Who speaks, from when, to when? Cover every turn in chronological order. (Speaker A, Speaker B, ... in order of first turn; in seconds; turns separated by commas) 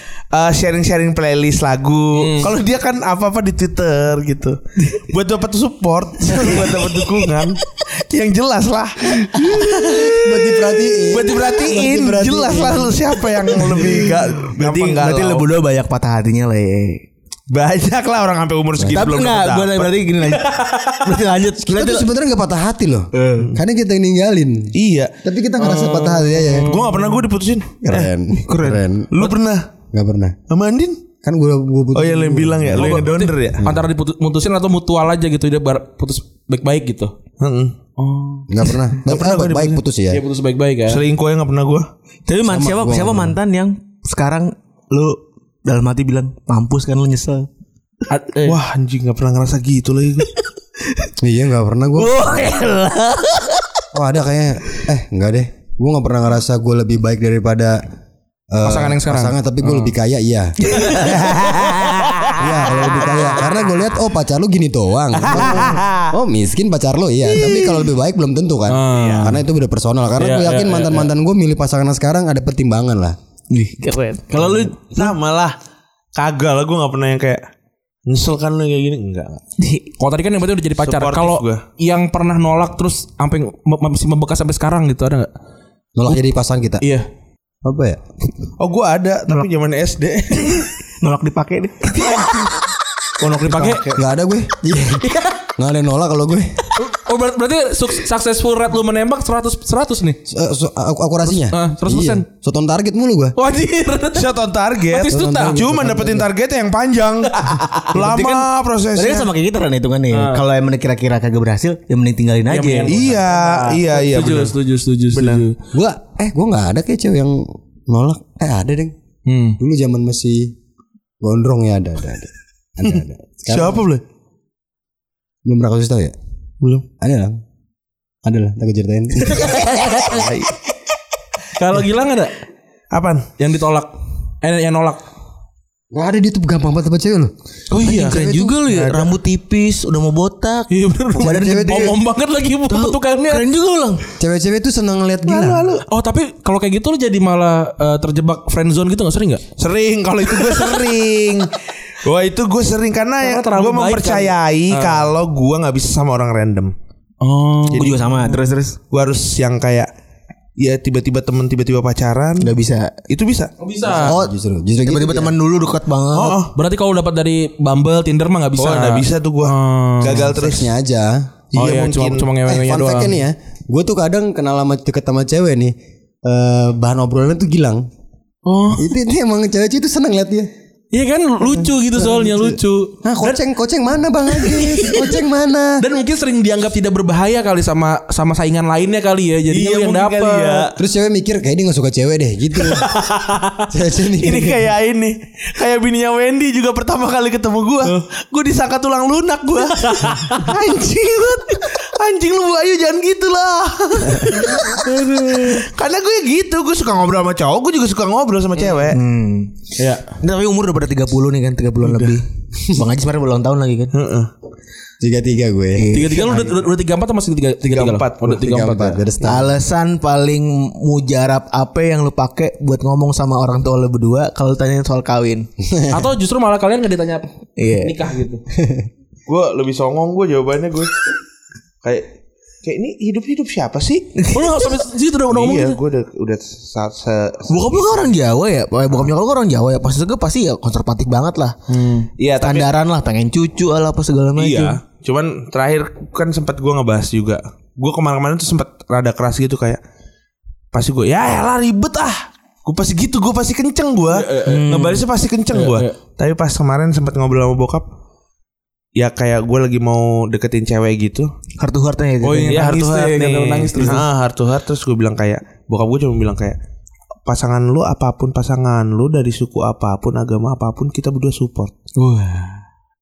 Speaker A: 0.3-15.5, Speaker B: 2.2-2.5, Speaker C: 6.4-7.1, Speaker D: 9.7-13.0, Speaker C: 13.6-17.0, Speaker A: 17.5-19.9, Speaker C: 18.8-22.1, Speaker B: 20.4-21.1, Speaker D: 21.6-26.7, Speaker C: 23.1-23.6, Speaker A: 24.7-25.1, Speaker B: 25.6-27.2, Speaker A: 26.6-28.0, Speaker D: 27.8-29.1, Speaker C: 28.4-29.3, Speaker A: 29.1-29.7, Speaker D: 29.9-30.4, Speaker A: 30.5-31.0, Speaker D: 31.2-33.0, Speaker A: 31.9-33.6, Speaker C: 32.7-33.0, Speaker B: 32.8-37.1, Speaker D: 33.6-33.9, Speaker A: 37.4-37.8, Speaker B: 38.0-38.5, Speaker D: 38.5-40.2, Speaker A: 39.1-39.8, Speaker B: 40.1-41.0, Speaker A: 40.9-41.9, Speaker C: 42.3-47.5, Speaker D: 42.5-43.4, Speaker B: 48.1-48.6, Speaker A: 48.4-50.3, Speaker D: 51.2-52.1, Speaker C: 52.0-53.7, Speaker D: 53.9-57.8, Speaker D: 58.5-61.0, Speaker B: 58.6-59.9, Speaker C: 60.7-62.3, Speaker A: 60.9-62.4, Speaker D: 62.4-73.2, Speaker A: 65.2-66.0, Speaker C: 65.3-65.8, Speaker C: 67.4-67.8, Speaker B: 68.7-69.4, Speaker A: 69.0-69.3, Speaker B: 70.2-71.1, Speaker C: 73.5-75.1, Speaker A: 74.9-75.5, Speaker A: 76.2-77.4, Speaker A: 78.1-79.4, Speaker C: 79.6-79.9, Speaker B: 80.0-85.3, Speaker A: 80.8-81.6, Speaker D: 86.0-86.8, Speaker B: 86.8-87.1, Speaker D: 87.6-88.0, Speaker A: 88.6-90.7, Speaker C: 91.0-92.6, Speaker A: 93.2-94.0, Speaker B: 93.2-94.0, Speaker D: 93.9-96.7, Speaker B: 95.0-95.4, Speaker B: 96.8-100.2, Speaker D: 100.3-103.4, Speaker B: 101.3-102.2, Speaker B: 103.4-105.7, Speaker A: 104.1-109.3, Speaker D: 105.1-106.3, Speaker C: 107.5-113.8, Speaker B: 110.1-110.4, Speaker B: 112.5-113.4, Speaker A: 112.9-114.5, Speaker B: 113.9-115.6, Speaker A: 115.1-115.5, Speaker D: 115.7-118.9, Speaker B: 119.3-119.6, Speaker D: 119.6-120.5, Speaker D: 121.2-123.9, Speaker A: 122.9-124.0, Speaker D: 125.5-126.1, Speaker D: 127.0-127.4, Speaker D: 128.2-129.6, Speaker A: 130.0-130.5, Speaker B: 131.6-132.3, Speaker A: 132.9-133.3, Speaker B: 133.4-135.0, Speaker D: 135.9-137.3, Speaker B: 137.7-138.2, Speaker C: 137.7-142.0, Speaker D: 138.0-138.5, Speaker A: 138.7-139.1, Speaker B: 140.7-143.4, Speaker D: 141.2-142.0, Speaker C: 142.7-144.0, Speaker D: 144.2-145.7, Speaker A: 145.3-145.8, Speaker B: 145.9-149.4, Speaker A: 149.6-151.5, Speaker A: 152.0-156.7, Speaker B: 153.2-155.1, Speaker B: 157.2-158.4, Speaker C: 157.8-158.8, Speaker A: 158.9-159.9, Speaker A: 160.6-162.5, Speaker C: 162.4-162.9, Speaker A: 163.1-163.5, Speaker B: 163.6-164.1, Speaker D: 164.0-165.3, Speaker C: 164.1-164.3, Speaker C: 164.8-166.4, Speaker A: 166.1-166.5, Speaker B: 166.6-170.2, Speaker A: 168.6-170.7, Speaker D: 170.1-171.3, Speaker A: 171.5-172.3, Speaker B: 171.6-173.2, Speaker D: 172.4-175.7, Speaker D: 176.2-177.8, Speaker B: 178.5-178.9, Speaker D: 178.8-180.5, Speaker B: 180.9-183.4, Speaker D: 181.4-185.8, Speaker B: 184.3-185.1, Speaker B: 185.8-190.7, Speaker A: 189.5-190.8, Speaker D: 190.8-192.9, Speaker A: 192.7-193.0, Speaker B: 193.0-193.6, Speaker D: 193.7-194.7, Speaker A: 194.1-209.0, Speaker B: 199.8-200.5, Speaker C: 204.8-205.6, Speaker C: 208.6-213.9, Speaker B: 209.8-210.1, Speaker A: 211.8-212.2, Speaker A: 213.9-214.3, Speaker D: 215.0-216.7, Speaker C: 215.8-216.3, Speaker B: 215.9-219.0, Speaker A: 217.7-218.3, Speaker D: 218.2-219.5, Speaker C: 219.2-225.5, Speaker D: 225.7-226.0, Speaker B: 225.9-227.2, Speaker C: 227.6-228.0, Speaker B: 227.8-228.4, Speaker A: 229.3-231.1, Speaker A: 232.6-234.1, Speaker C: 234.2-234.7, Speaker B: 234.3-235.8, Speaker A: 235.3-237.9, Speaker C: 237.5-241.6, Speaker B: 241.7-242.1, Speaker A: 242.2-242.7, Speaker C: 242.4-244.8, Speaker A: 244.4-249.8, Speaker A: 250.7-257.9, Speaker B: 254.1-254.7, Speaker C: 254.4-255.1, Speaker B: 255.5-255.9, Speaker A: 259.0-261.3, Speaker C: 261.6-262.7, Speaker B: 262.2-264.1, Speaker A: 262.4-266.6, Speaker A: 267.3-271.7, Speaker B: 272.0-272.6